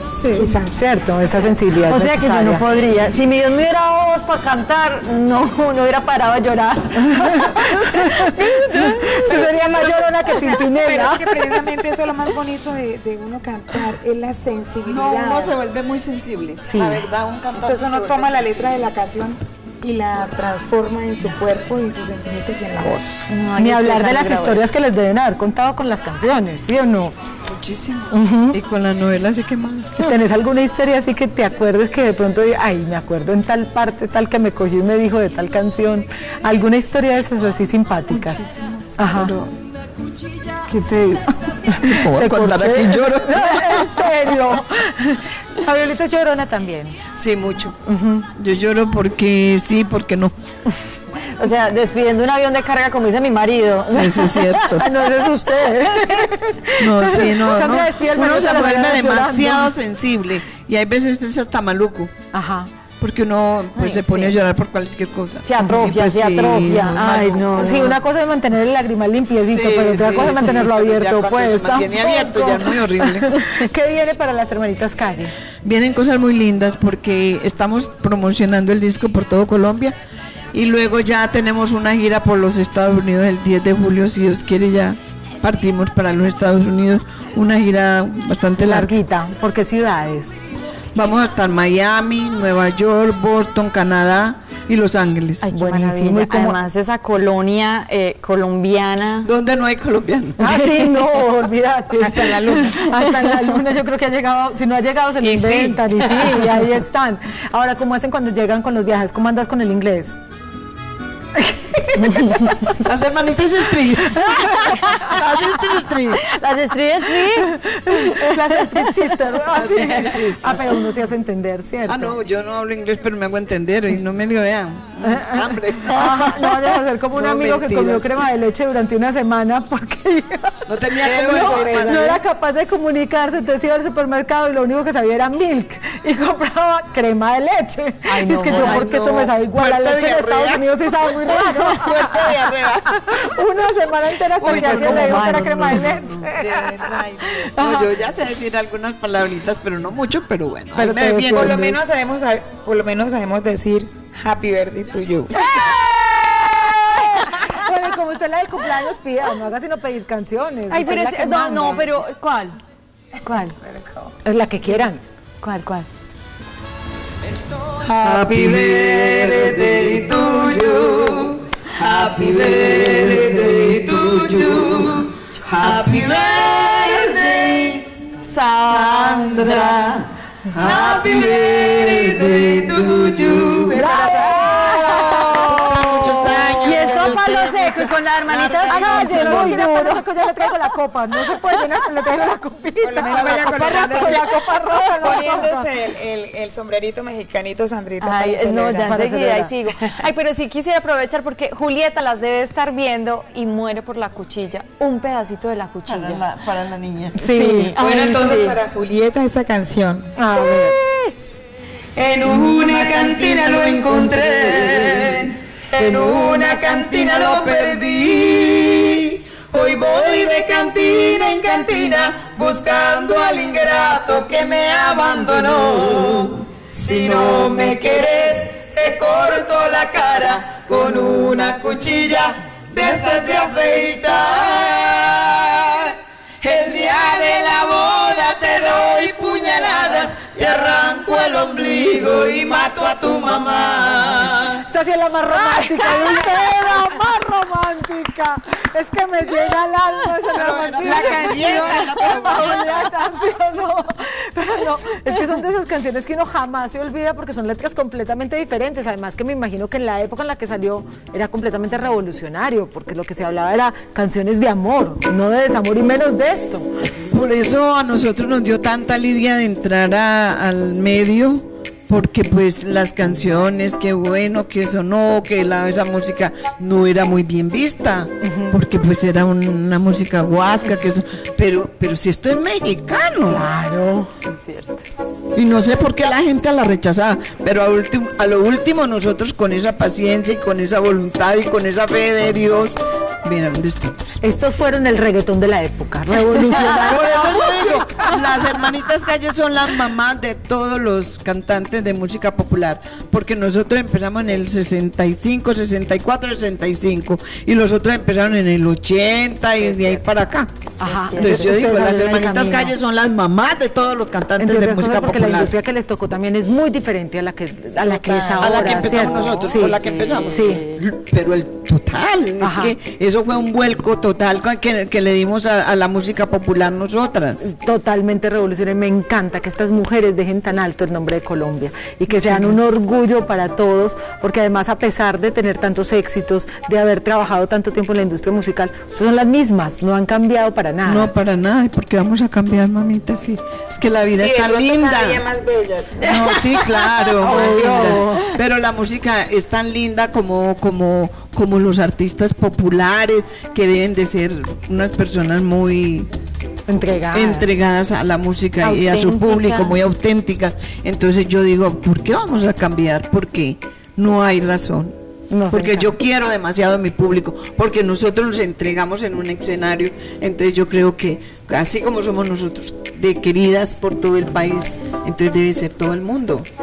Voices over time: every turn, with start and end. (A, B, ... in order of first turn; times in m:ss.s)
0:00.1-0:00.8 A
0:00.7-0:02.6 B
0:01.9-0:09.6 C
0:07.0-0:11.6 B
0:09.2-0:15.6 A
0:14.8-0:18.8 D
0:16.6-0:17.0 B
0:17.5-0:23.2 A
0:23.3-0:24.6 C
0:23.6-0:27.1 B
0:27.5-0:30.0 D
0:28.1-0:28.6 B
0:30.0-0:38.4 B
0:38.1-0:39.6 D
0:39.0-0:39.3 B
0:40.6-0:43.7 D
0:41.8-0:47.0 B
0:47.1-0:47.8 D
0:47.8-0:48.3 B
0:48.4-0:50.3 D
0:51.4-0:54.4 C
0:53.9-0:54.8 D
0:54.5-0:59.7 B
0:55.8-0:56.3 C
0:56.8-1:02.1 D
1:02.3-1:02.7 B
1:03.0-1:07.6 D
1:03.7-1:04.4 C
1:05.4-1:08.0 C
1:05.6-1:05.9 B
1:07.5-1:15.3 B
1:09.5-1:13.5 D
1:15.6-1:20.0 D
1:20.5-1:28.9 D
1:28.6-1:30.4 B
1:30.9-1:35.4 D
1:35.4-1:36.6 B
1:35.4-1:39.3 C
1:39.2-1:40.4 D
1:40.4-1:50.1 B
1:42.0-1:42.8 A
1:45.2-1:46.2 A
1:51.4-1:52.7 B
1:52.8-1:56.2 D
1:54.3-1:54.8 B
1:56.1-1:58.9 C
1:57.4-2:02.2 B
1:59.5-1:59.8 C
1:59.5-2:00.8 D
2:01.9-2:06.1 D
2:05.0-2:27.9 B
2:05.9-2:06.5 C
2:07.1-2:08.1 D
2:10.7-2:12.2 D
2:11.0-2:12.1 C
2:18.1-2:18.9 C
2:18.4-2:23.6 D
2:24.4-2:26.3 D
2:24.4-2:25.9 C
2:26.3-2:27.6 A
2:27.5-2:31.6 D
2:30.7-2:31.8 B
2:31.3-2:35.3 A
2:35.3-2:41.9 B
2:40.7-2:42.6 C
2:43.2-2:43.6 C
2:44.2-2:45.0 B
2:45.4-2:45.9 C
2:47.8-2:48.7 A
2:48.0-2:57.9 D
2:58.3-2:59.7 C
2:58.7-3:09.6 D
3:00.6-3:02.2 A
3:03.7-3:06.5 B
3:03.8-3:04.4 A
3:04.0-3:05.6 C
3:06.2-3:10.0 C
3:08.7-3:15.7 B
3:12.8-3:19.0 A
3:13.2-3:14.1 D
3:18.0-3:26.2 C
3:18.8-3:19.5 B
3:25.8-3:27.2 D
3:27.2-3:27.7 B
3:27.2-3:28.6 C
3:27.8-3:30.1 A
3:30.2-3:30.8 B
3:32.0-4:04.6 D
3:32.6-3:33.8 A
3:37.1-3:37.6 A
4:04.2-4:26.7 B
4:10.3-4:12.9 D
4:10.8-4:11.8 A
4:27.1-4:43.5 D
4:38.2-4:38.6 B
4:43.3-4:44.1 B
4:45.3-4:54.0 D
4:54.2-4:57.8 B
4:56.4-5:10.5 D
5:09.6-5:10.0 C
5:10.8-5:12.7 B
5:10.9-5:11.4 C
5:11.1-5:15.5 D
5:14.4-5:20.6 B
5:17.8-5:18.8 A
5:18.4-5:27.5 D
5:18.7-5:20.8 C
5:22.4-5:22.7 B
5:27.4-5:41.1 B
5:32.1-5:32.6 D
5:40.8-5:45.2 D
5:44.1-5:46.1 A
5:46.0-5:56.1 D
5:46.0-5:46.9 C
5:47.2-5:48.3 B
5:47.4-5:47.7 C
5:56.7-5:57.5 B
5:57.1-6:05.0 D
5:58.6-5:59.8 C
6:05.3-6:05.9 B
6:05.5-6:16.5 D